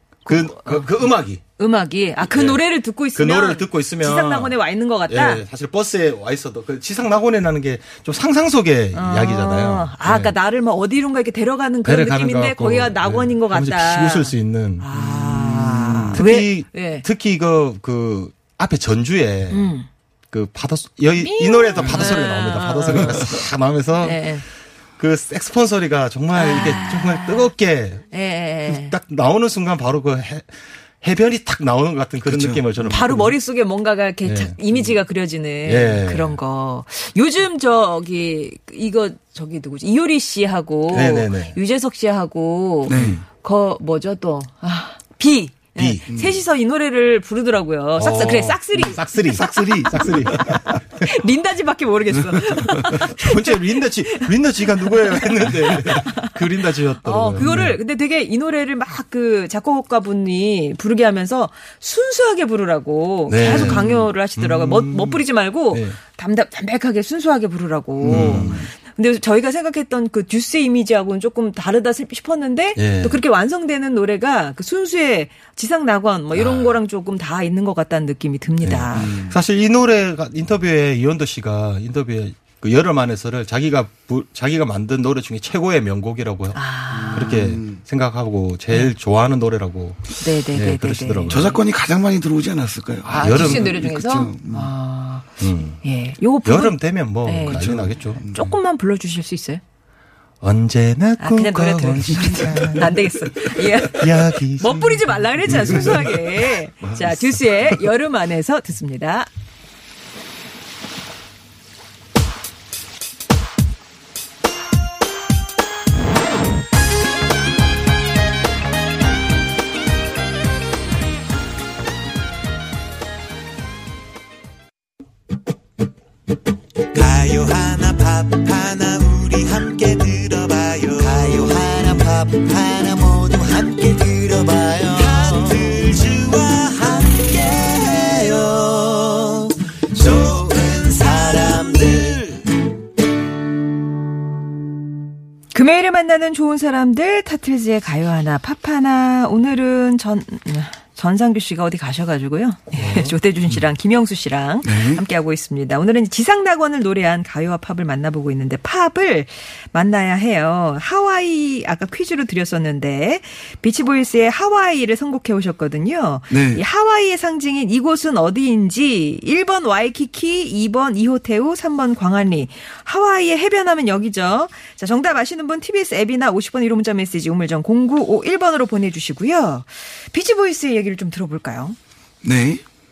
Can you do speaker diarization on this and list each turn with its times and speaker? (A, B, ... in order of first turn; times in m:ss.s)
0:00.3-0:01.4 A
0:00.3-0:05.4 B
0:02.2-0:04.6 A
0:05.1-0:10.3 A
0:08.9-0:17.0 B
0:11.8-0:19.7 A
0:19.5-0:19.9 B
0:20.3-0:24.4 A
0:21.2-0:23.3 B
0:24.0-0:24.4 B
0:25.0-0:28.1 A
0:26.3-0:27.5 B
0:28.1-0:29.0 B
0:28.6-0:33.4 A
0:32.2-0:32.6 C
0:32.9-0:50.0 B
0:34.2-0:34.9 A
0:35.6-0:36.4 A
0:40.9-0:41.6 A
0:42.9-0:43.2 C
0:42.9-0:43.2 A
0:45.8-0:46.0 A
0:46.1-0:46.4 C
0:48.0-0:51.1 A
0:49.3-0:50.6 C
0:51.0-0:56.3 B
0:52.8-0:57.8 A
0:57.0-1:19.1 B
1:03.3-1:06.0 A
1:03.5-1:03.9 C
1:08.0-1:08.6 C
1:08.1-1:08.7 A
1:12.8-1:13.2 A
1:16.3-1:16.8 A
1:18.6-1:31.6 A
1:19.0-1:19.4 C
1:26.5-1:27.3 B
1:26.9-1:27.8 C
1:30.2-1:31.4 B
1:31.3-1:34.7 C
1:33.0-1:33.7 A
1:33.1-1:35.3 B
1:35.4-1:35.8 A
1:35.8-1:39.6 B
1:36.4-1:38.2 A
1:37.5-1:38.5 C
1:40.4-1:43.0 A
1:41.2-1:49.3 B
1:42.2-1:42.8 C
1:43.9-1:46.1 A
1:45.5-1:46.2 C
1:46.8-1:47.2 C
2:06.9-2:22.5 D
2:25.5-3:01.8 B
2:32.8-2:33.2 A
2:34.6-2:35.0 C
2:46.3-2:46.6 C
3:02.2-3:02.6 C